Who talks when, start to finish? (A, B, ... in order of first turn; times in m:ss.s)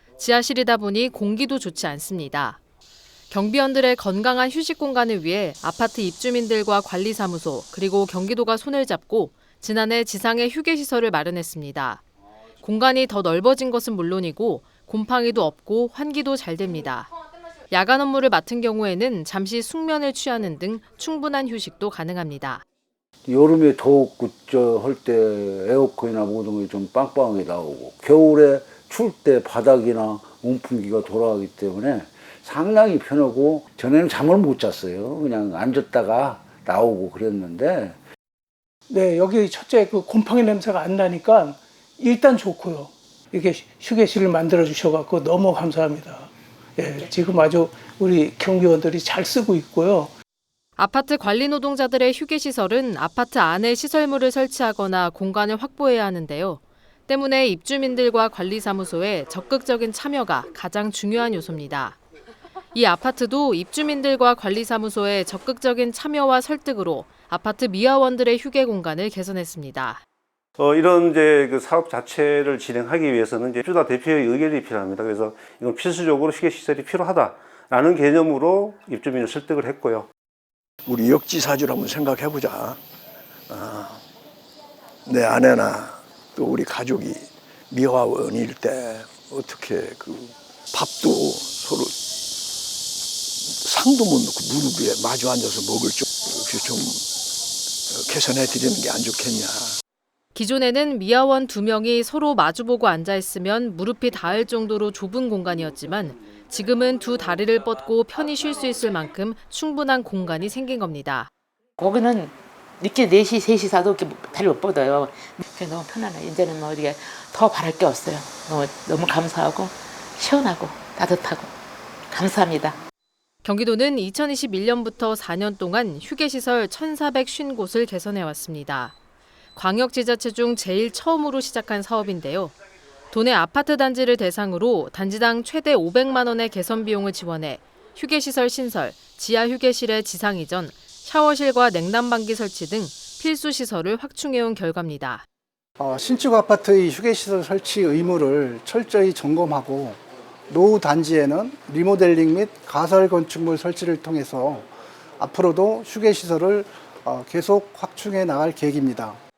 0:00.2-0:02.6 A
0:03.3-0:12.0 A
0:12.6-0:17.1 A
0:17.7-0:22.6 A
0:23.3-0:38.0 B
0:38.9-0:50.1 C
0:50.8-1:02.0 A
1:02.7-1:10.0 A
1:10.6-1:20.1 D
1:20.9-1:22.8 E
1:23.5-1:24.0 E
1:25.1-1:32.0 E
1:33.4-1:37.1 E
1:37.9-1:39.8 E
1:40.4-1:51.3 A
1:51.8-2:01.5 F
2:02.1-2:02.8 F
2:03.4-2:09.0 A
2:09.6-2:12.5 A
2:13.1-2:25.2 A
2:25.8-2:39.2 G